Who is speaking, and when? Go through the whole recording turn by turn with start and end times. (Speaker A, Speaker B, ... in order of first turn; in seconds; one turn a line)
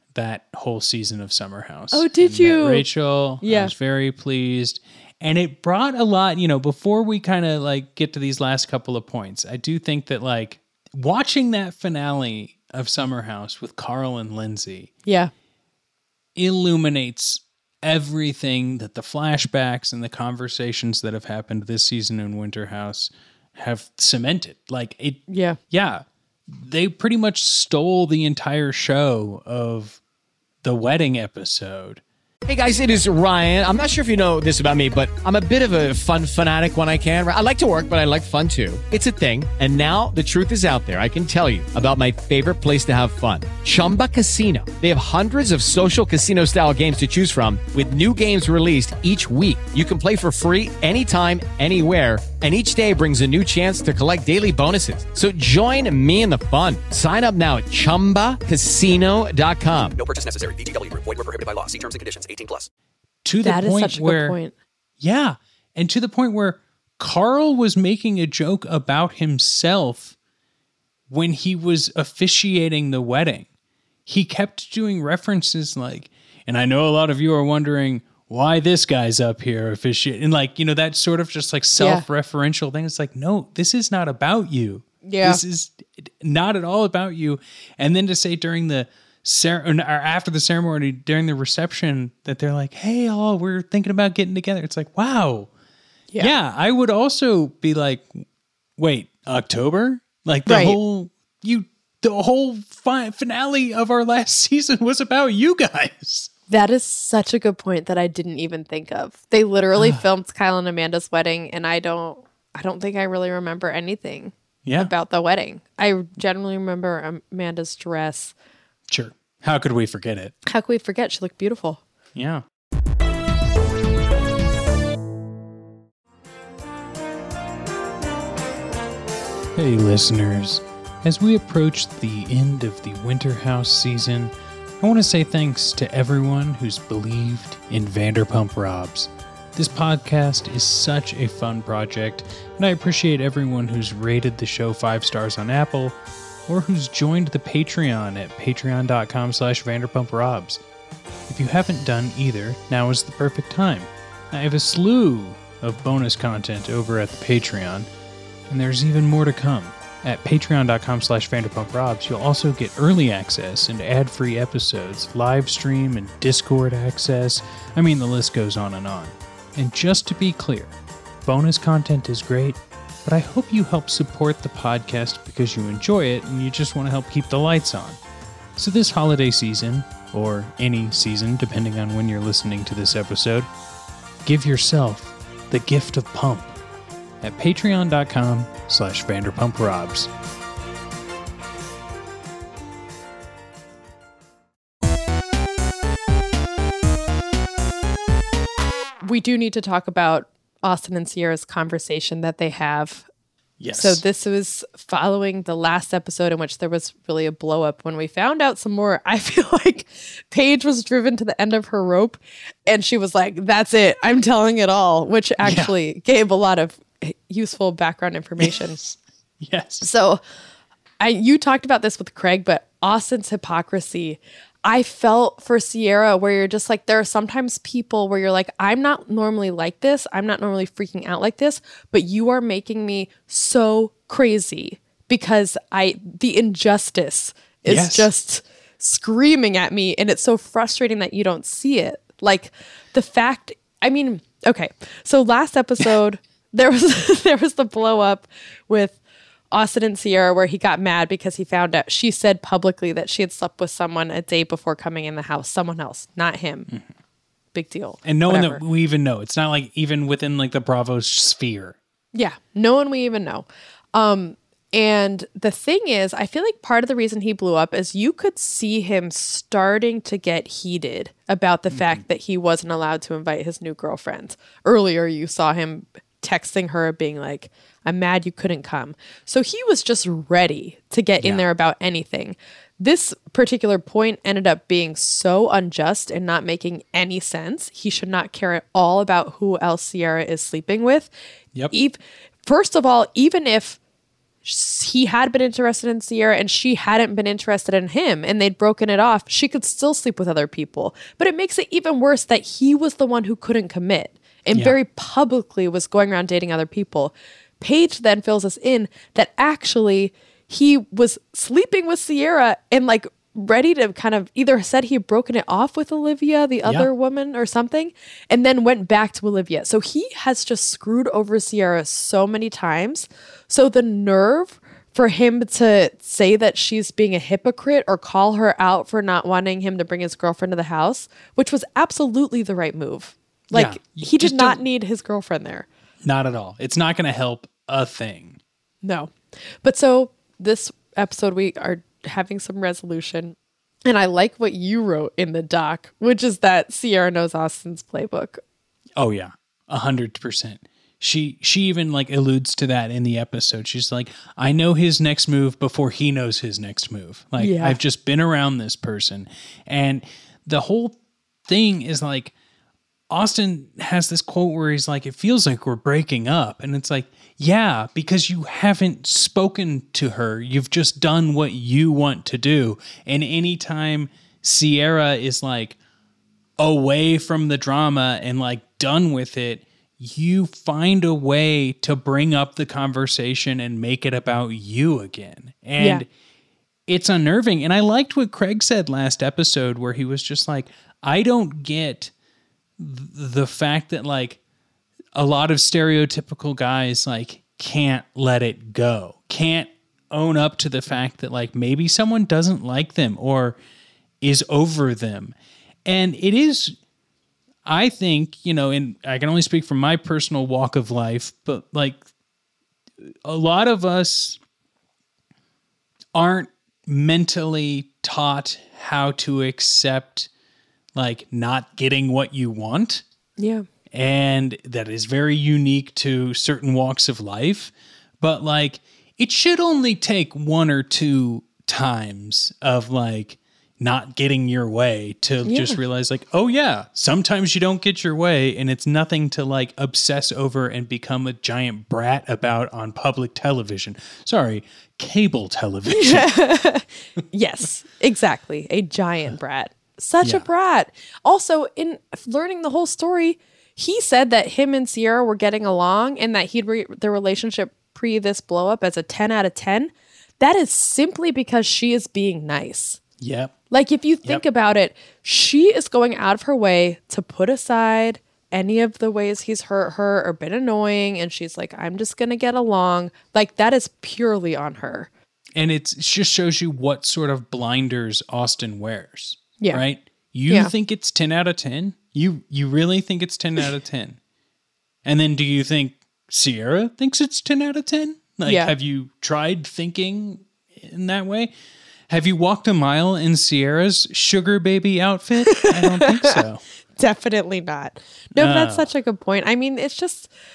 Speaker A: 0.1-14.9
Speaker B: 1.9-2.9
Speaker B: 3.4-3.7
Speaker B: 15.1-15.3
Speaker A: 16.4-30.0
Speaker B: 25.3-25.6
Speaker A: 30.6-32.0
Speaker C: 32.4-60.0
Speaker D: 60.0-62.7
Speaker A: 63.2-64.4
Speaker B: 63.4-64.5
Speaker A: 65.0-70.1
Speaker A: 71.1-73.5
Speaker A: 74.0-95.5
Speaker B: 81.8-82.0
Speaker B: 85.0-85.4
Speaker A: 96.2-98.2
Speaker A: 98.8-106.3
Speaker B: 100.5-100.8
Speaker B: 106.5-118.3
Speaker A: 109.7-110.0
Speaker A: 114.6-114.9
Speaker A: 118.9-120.3
Speaker B: 120.5-121.8
Speaker A: 122.1-122.4
Speaker A: 129.5-150.6
Speaker A: 151.3-157.9
Speaker A: 158.5-178.0
Speaker A: 178.6-183.5
Speaker A: 184.2-186.5
Speaker A: 187.2-190.1
Speaker B: 199.0-203.1
Speaker A: 203.6-204.0
Speaker B: 203.7-218.8
Speaker A: 215.4-215.7
Speaker A: 218.4-219.9
Speaker B: 219.8-220.2
Speaker B: 221.0-249.0
Speaker A: 237.6-238.1
Speaker B: 249.5-256.7
Speaker B: 257.5-258.6
Speaker A: 258.0-261.8
Speaker B: 262.1-291.1
Speaker A: 271.7-272.0
Speaker B: 291.7-293.8
Speaker B: 294.4-335.7
Speaker A: 316.6-316.9
Speaker A: 333.5-334.6
Speaker A: 336.0-338.4
Speaker B: 338.8-348.4
Speaker A: 349.0-362.3
Speaker B: 357.4-357.8
Speaker A: 363.1-375.8
Speaker A: 376.6-386.1
Speaker B: 385.8-386.0
Speaker A: 386.9-392.1
Speaker A: 392.8-394.4
Speaker A: 395.1-403.6
Speaker A: 404.2-405.3
Speaker A: 405.9-406.8
Speaker A: 407.6-412.0
Speaker A: 413.0-414.4
Speaker A: 416.1-420.3
Speaker A: 420.9-423.0
Speaker B: 423.4-423.6
Speaker A: 423.9-446.3
Speaker B: 435.4-435.8
Speaker B: 445.9-463.0
Speaker A: 463.2-463.5
Speaker B: 463.7-475.1
Speaker A: 475.6-484.2
Speaker A: 485.0-491.5
Speaker B: 488.4-488.7
Speaker A: 492.1-496.6
Speaker B: 495.5-496.4
Speaker B: 497.0-500.3
Speaker A: 498.3-498.9